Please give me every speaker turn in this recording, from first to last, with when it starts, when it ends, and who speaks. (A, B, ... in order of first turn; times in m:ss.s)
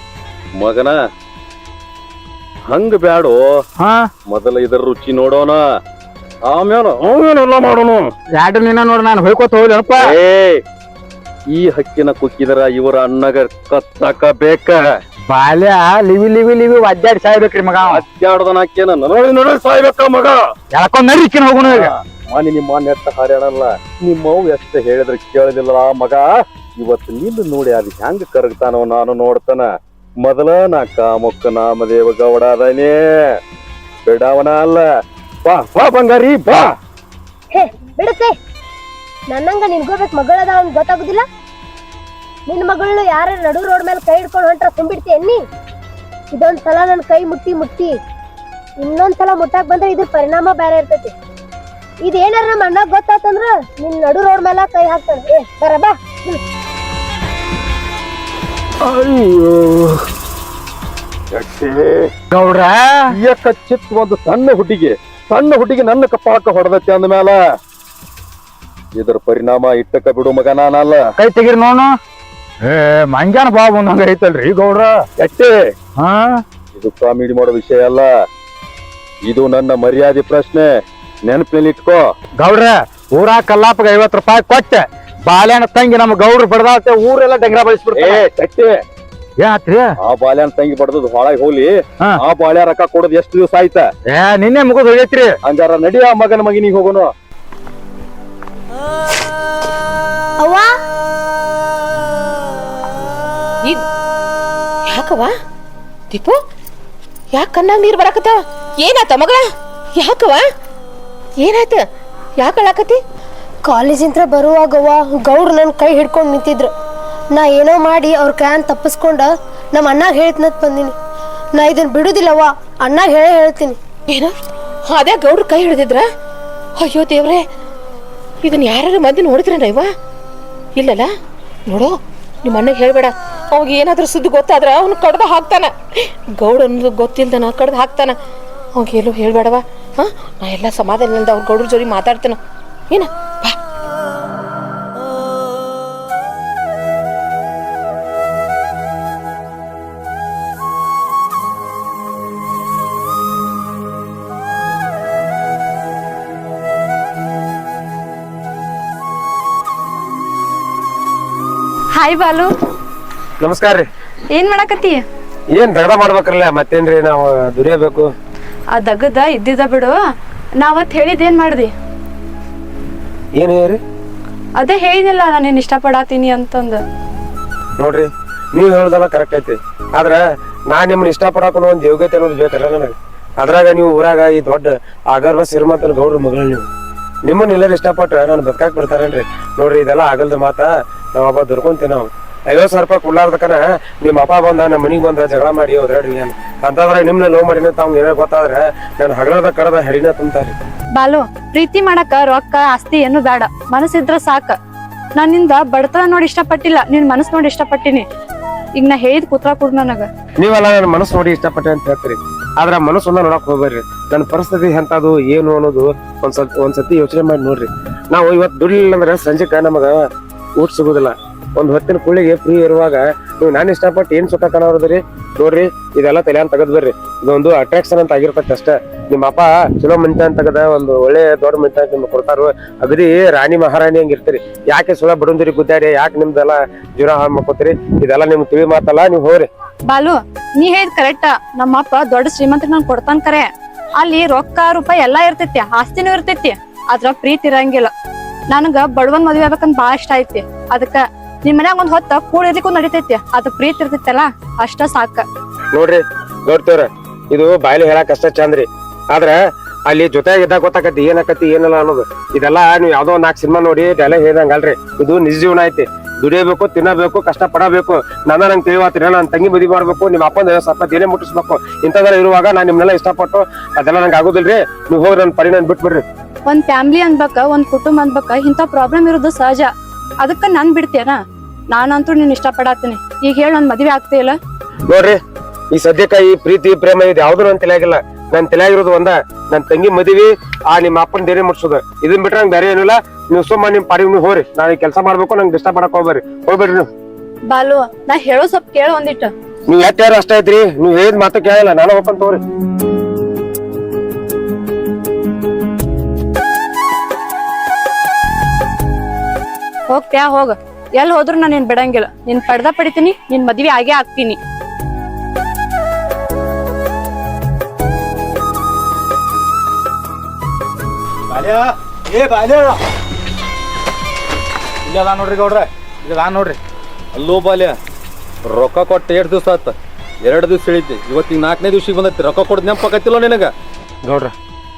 0:00.6-0:01.0 A
0:02.7-0:03.6 A
0:03.8-0:04.1 B
0:04.3-0:05.6 A
0:06.4-0:08.1 A
0:08.3-0:10.1 B
0:10.1-0:10.6 A
0:11.5-0:14.8 A
0:15.3-0:18.0 B
0:17.8-0:20.4 A
0:20.7-0:21.9 B
0:21.6-0:29.7 A
0:30.2-0:33.0 A
0:34.1-0:34.8 A
0:35.4-0:36.7 A
0:37.5-0:38.3 C
0:39.3-0:41.2 C
0:42.5-0:45.4 C
0:46.3-0:48.0 C
0:48.8-0:51.1 C
0:52.0-0:56.4 C
0:59.6-0:59.9 B
1:01.3-1:02.1 A
1:02.3-1:03.2 B
1:03.2-1:07.4 A
1:09.0-1:11.0 A
1:11.2-1:11.9 B
1:12.6-1:15.0 B
1:15.2-1:15.5 A
1:16.0-1:16.4 B
1:16.8-1:18.1 A
1:19.3-1:20.7 A
1:21.2-1:22.0 A
1:22.4-1:28.2 B
1:28.0-1:28.7 A
1:29.4-1:29.9 B
1:30.0-1:33.9 A
1:34.1-1:35.4 B
1:35.4-1:37.1 A
1:40.4-1:40.7 C
1:44.9-1:45.3 D
1:46.1-1:46.4 D
1:47.3-1:49.4 D
1:50.0-1:50.4 D
1:51.4-1:51.8 D
1:52.4-1:53.0 D
1:53.7-1:56.7 C
1:57.3-2:00.9 C
2:01.6-2:03.8 C
2:04.1-2:04.4 D
2:04.9-2:06.0 D
2:06.8-2:07.4 D
2:08.4-2:09.9 D
2:10.8-2:11.1 D
2:11.7-2:18.2 D
2:18.8-2:22.4 D
2:22.9-2:23.6 D
2:42.0-2:42.5 E
2:43.4-2:43.8 F
2:44.3-2:45.0 E
2:45.5-2:48.1 F
2:48.7-2:50.0 E
2:50.6-2:51.7 E
2:53.4-2:53.8 F
2:54.6-2:56.8 E
2:57.8-3:06.7 F
3:07.2-3:20.5 F
3:21.0-3:24.6 E
3:25.2-3:28.1 E
3:28.8-3:30.1 E
3:30.4-3:40.0 F
3:40.6-3:59.5 F
3:59.9-4:07.9 E
4:08.5-4:15.3 E
4:15.7-4:19.4 F
4:19.9-4:36.0 F
4:36.5-4:39.7 E
4:40.2-4:41.2 E
4:41.7-4:44.4 E
4:44.9-4:45.2 F
4:45.7-4:56.9 F
4:57.5-4:59.3 E
4:59.7-5:02.4 F
5:09.9-5:14.4 E
5:21.3-5:22.8 B
5:24.9-5:26.6 B
5:27.1-5:27.7 A
5:28.5-5:33.5 A
5:34.1-5:34.3 F